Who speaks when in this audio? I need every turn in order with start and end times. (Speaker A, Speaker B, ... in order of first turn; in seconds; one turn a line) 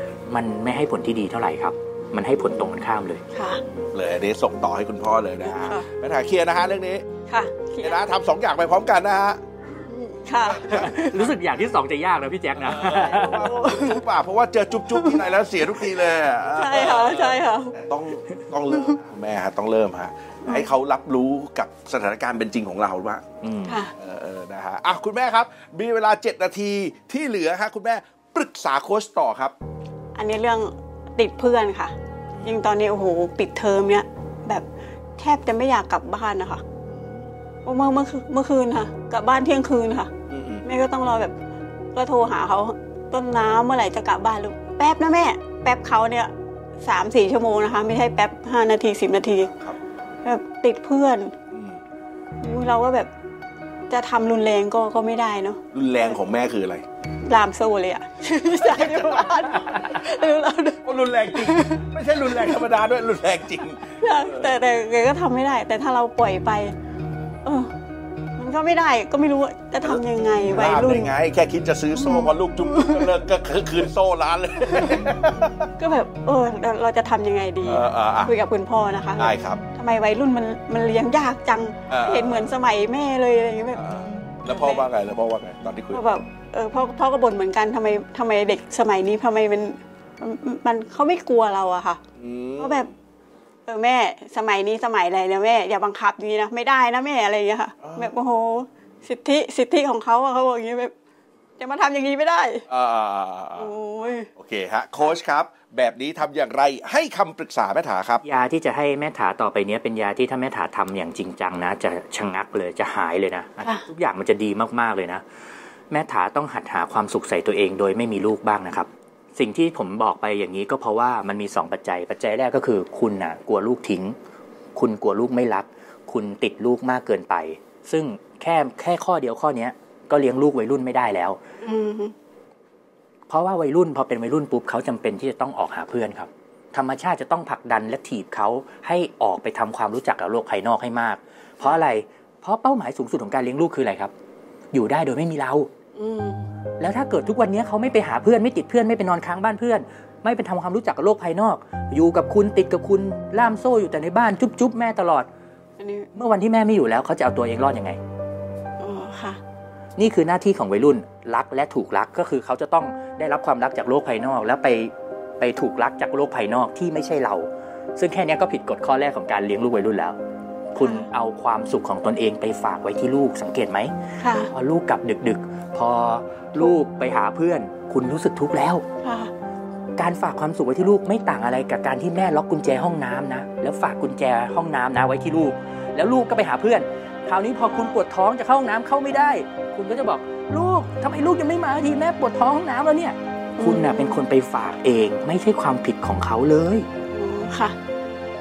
Speaker A: 0.3-3.2
Speaker B: 3.3-3.6
Speaker C: 3.9-7.1
Speaker B: 5.4-5.9
Speaker B: 7.3-8.0
Speaker C: 7.8-9.4
Speaker B: 9.9-11.3
Speaker C: 10.4-11.0
Speaker A: 10.6-13.5
Speaker C: 12.6-23.2
Speaker B: 12.9-14.0
Speaker B: 14.9-15.2
Speaker B: 16.5-17.8
Speaker B: 20.4-20.7
Speaker A: 23.4-23.8
Speaker B: 23.6-23.9
Speaker C: 24.0-29.5
Speaker B: 30.1-34.6
Speaker B: 35.2-36.6
Speaker C: 36.9-37.3
Speaker B: 37.6-40.1
Speaker C: 40.3-40.6
Speaker B: 40.6-41.3
Speaker B: 41.9-49.5
Speaker B: 50.2-51.3
Speaker C: 51.5-51.8
Speaker B: 52.4-53.1
Speaker B: 53.9-55.6
Speaker C: 55.7-56.8
Speaker B: 57.2-62.6
Speaker C: 58.6-59.5
Speaker C: 60.8-64.5
Speaker B: 64.0-66.8
Speaker B: 67.4-67.7
Speaker B: 68.4-71.1
Speaker C: 69.8-75.7
Speaker B: 71.9-73.1
Speaker B: 74.6-75.0
Speaker B: 75.8-83.8
Speaker C: 77.6-78.3
Speaker C: 79.2-79.6
Speaker C: 81.9-82.5
Speaker C: 83.8-86.0
Speaker B: 84.5-84.9
Speaker B: 85.9-92.0
Speaker C: 92.2-92.9
Speaker B: 92.6-92.9
Speaker B: 93.7-100.9
Speaker C: 97.8-98.1
Speaker B: 101.6-102.6
Speaker C: 102.7-103.7
Speaker B: 103.6-104.3
Speaker C: 104.3-108.2
Speaker A: 108.2-115.2
Speaker A: 115.9-124.2
Speaker A: 124.8-131.4
Speaker B: 131.6-132.1
Speaker A: 133.3-144.1
Speaker A: 144.7-145.7
Speaker B: 145.9-146.5
Speaker A: 146.8-155.3
Speaker B: 155.8-156.1
Speaker A: 156.1-158.0
Speaker B: 158.8-159.4
Speaker A: 160.0-170.2
Speaker A: 170.8-173.9
Speaker B: 170.8-171.1
Speaker B: 174.2-174.5
Speaker A: 174.5-178.8
Speaker B: 179.0-179.3
Speaker A: 180.0-196.9
Speaker B: 187.6-187.9
Speaker B: 193.6-194.2
Speaker B: 197.1-197.8